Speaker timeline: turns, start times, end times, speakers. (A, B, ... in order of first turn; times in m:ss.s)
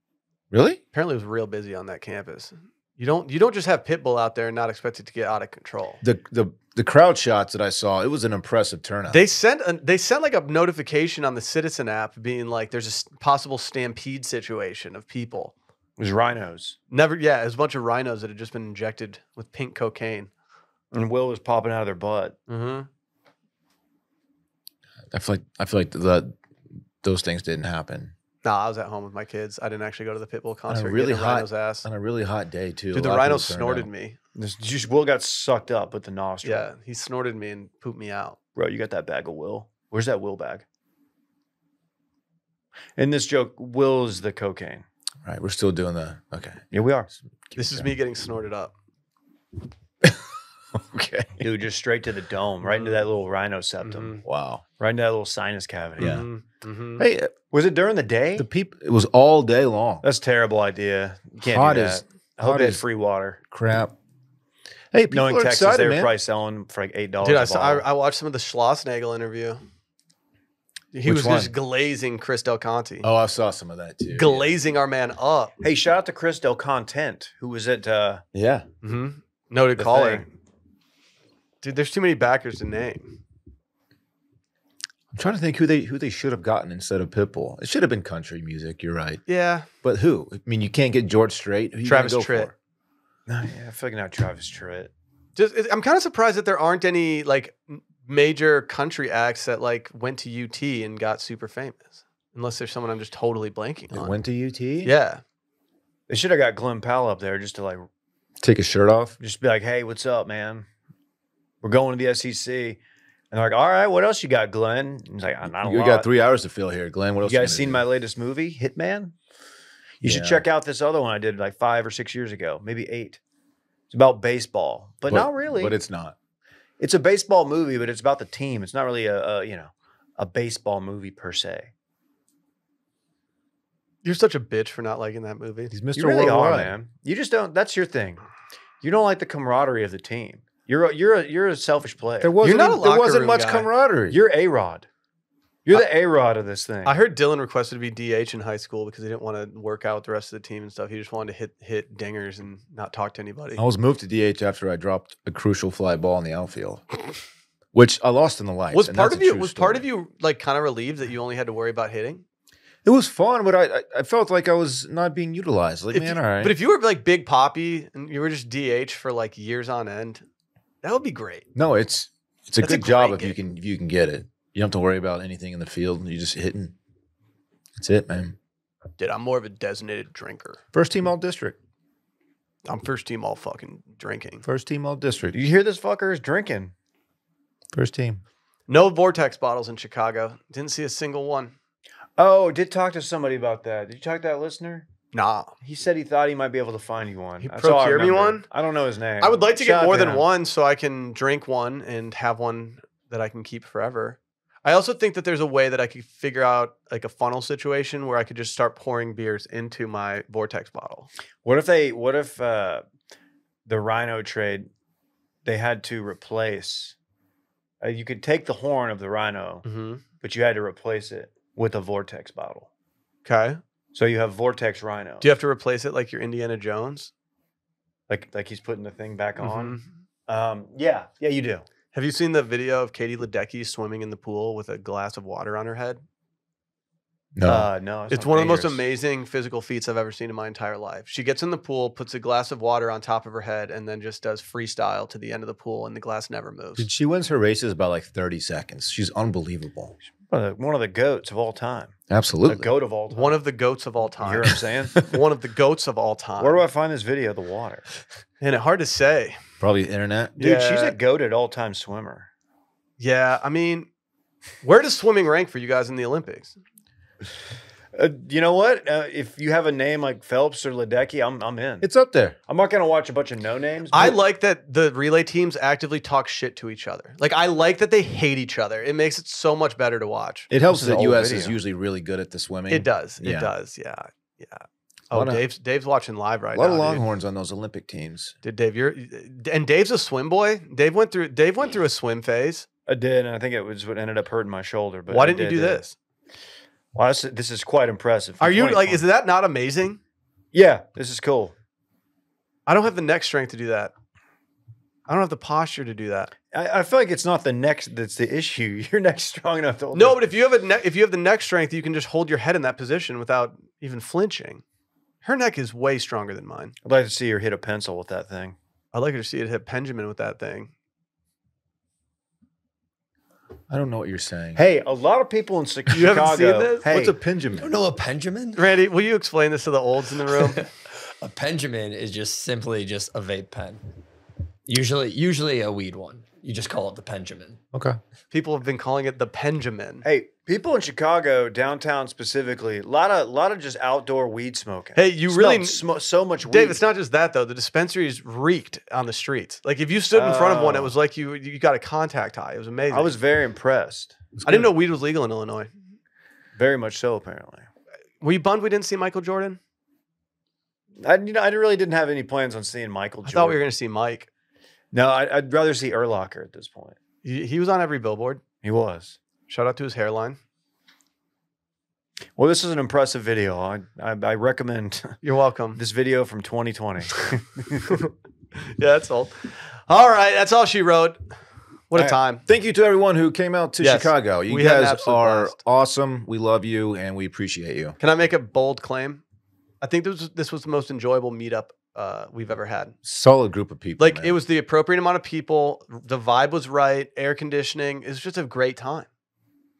0:00.5-0:00.8 A
0:00.9-0:06.0 B
0:06.0-0:09.2 A
0:09.1-0:15.5 B
0:16.0-0:16.8 C
0:16.9-0:20.3 B
0:20.9-0:22.4 C
0:22.5-0:22.9 B
0:25.1-0:26.4 A
0:27.0-0:28.1 A
0:28.4-0:31.9 B
0:30.7-0:33.9 A
0:32.9-0:34.2 B
0:34.4-0:36.7 C
0:36.4-0:38.4 B
0:38.6-0:40.6 C
0:43.0-0:44.8 C
0:45.2-0:47.9 A
0:46.7-0:47.1 C
0:47.6-0:48.7 B
0:50.0-0:51.4 A
0:51.4-0:54.2 C
0:52.6-0:53.0 B
0:53.8-0:54.2 B
0:54.2-0:54.6 A
0:54.8-0:56.2 C
0:56.0-0:57.1 B
0:56.0-0:56.3 A
0:57.0-0:57.4 A
0:57.5-0:58.5 C
0:58.4-1:00.0 A
1:00.0-1:03.4 C
1:01.4-1:02.8 A
1:03.5-1:03.9 A
1:04.9-1:06.1 A
1:05.1-1:07.8 C
1:07.2-1:09.6 B
1:10.9-1:13.1 B
1:11.0-1:11.5 A
1:13.0-1:14.5 A
1:14.1-1:15.5 B
1:15.6-1:18.2 C
1:18.3-1:18.7 A
1:18.8-1:20.3 B
1:19.8-1:20.2 C
1:21.6-1:23.2 B
1:25.1-1:29.2 A
1:29.3-1:29.7 B
1:29.8-1:32.5 A
1:31.8-1:32.5 B
1:33.3-1:34.9 C
1:35.4-1:44.2 B
1:43.9-1:44.9 A
1:44.8-1:45.2 B
1:46.1-1:47.9 C
1:48.4-1:49.2 A
1:49.2-1:50.7 C
1:51.6-1:52.8 C
1:53.3-1:56.1 C
1:55.5-1:57.8 A
1:57.2-1:59.2 C
2:00.0-2:03.2 C
2:00.0-2:00.4 A
2:03.9-2:05.8 C
2:05.1-2:06.2 A
2:06.8-2:11.7 C
2:14.0-2:15.7 B
2:15.7-2:16.8 A
2:16.0-2:18.2 C
2:18.8-2:22.4 C
2:22.2-2:24.2 A
2:22.4-2:23.7 B
2:24.1-2:24.9 C
2:25.7-2:27.0 C
2:26.8-2:33.6 B
2:33.6-2:36.9 A
2:37.7-2:39.8 A
2:38.7-2:42.2 B
2:42.8-2:46.6 A
2:45.9-2:50.2 B
2:50.8-2:51.5 B
2:51.6-2:56.8 A
2:52.6-2:53.4 B
2:57.8-2:58.4 A
2:59.0-3:00.6 B
3:00.7-3:01.6 A
3:02.7-3:04.4 B
3:04.4-3:05.4 A
3:05.3-3:06.7 C
3:07.7-3:08.2 A
3:08.7-3:11.5 B
3:12.2-3:14.9 C
3:15.1-3:15.5 B
3:15.6-3:20.2 C
3:17.4-3:18.5 B
3:19.2-3:31.1 B
3:31.4-3:32.8 C
3:33.7-3:34.7 C
3:35.4-3:37.0 C
3:37.8-3:39.7 C
3:39.6-3:40.0 B
3:40.2-3:42.7 C
3:43.2-3:43.6 B
3:43.9-3:45.3 C
3:45.2-3:47.1 B
3:48.1-3:51.7 C
3:49.4-3:49.9 B
3:51.9-3:56.0 B
3:57.4-3:57.7 A
3:57.4-3:58.8 C
3:58.1-4:06.9 B
4:06.8-4:10.0 A
4:10.3-4:13.4 C
4:12.1-4:12.7 A
4:13.1-4:16.6 B
4:14.2-4:15.0 C
4:16.4-4:17.9 C
4:18.4-4:19.4 B
4:19.6-4:20.4 A
4:20.4-4:21.0 B
4:20.4-4:22.3 C
4:23.0-4:23.9 B
4:24.6-4:26.6 B
4:27.9-4:31.9 C
4:31.8-4:32.4 A
4:32.5-4:34.2 C
4:33.9-4:40.5 B
4:40.5-4:43.5 A
4:40.7-4:41.6 C
4:42.7-4:47.0 B
4:45.1-4:45.4 A
4:46.5-4:48.4 A
4:48.4-4:52.7 B
4:52.9-4:55.8 C
4:55.1-4:56.0 B
4:56.9-4:59.0 C
4:58.4-5:00.0 B
5:00.5-5:01.5 C
5:02.7-5:03.9 B
5:05.1-5:06.3 B
5:06.5-5:10.2 C
5:09.9-5:14.6 B
5:15.2-5:16.8 B
5:16.8-5:18.6 C
5:18.9-5:20.7 B
5:23.7-5:24.6 A
5:24.6-5:27.2 C
5:25.9-5:26.9 B
5:26.8-5:27.7 A
5:27.5-5:28.6 D
5:28.6-5:30.6 B
5:30.4-5:33.8 D
5:34.7-5:37.6 D
5:37.7-5:38.0 A
5:38.3-5:40.0 B
5:40.0-5:46.8 C
5:45.0-5:45.8 B
5:46.4-5:53.1 B
5:50.1-5:50.9 C
5:52.9-5:54.4 C
5:54.4-5:54.7 A
5:54.4-5:55.7 B
5:56.6-5:57.7 C
5:58.2-5:59.6 B
6:01.0-6:03.6 C
6:03.2-6:04.3 B
6:04.9-6:07.0 C
6:07.2-6:08.4 B
6:08.6-6:09.2 C
6:09.5-6:10.4 B
6:12.4-6:15.2 C
6:15.2-6:15.8 B
6:15.8-6:17.8 C
6:18.6-6:21.2 B
6:21.9-6:22.4 B
6:21.9-6:28.0 A
6:23.8-6:25.6 B
6:28.0-6:29.2 B
6:29.8-6:33.0 B
6:33.0-6:34.4 A
6:34.0-6:39.1 B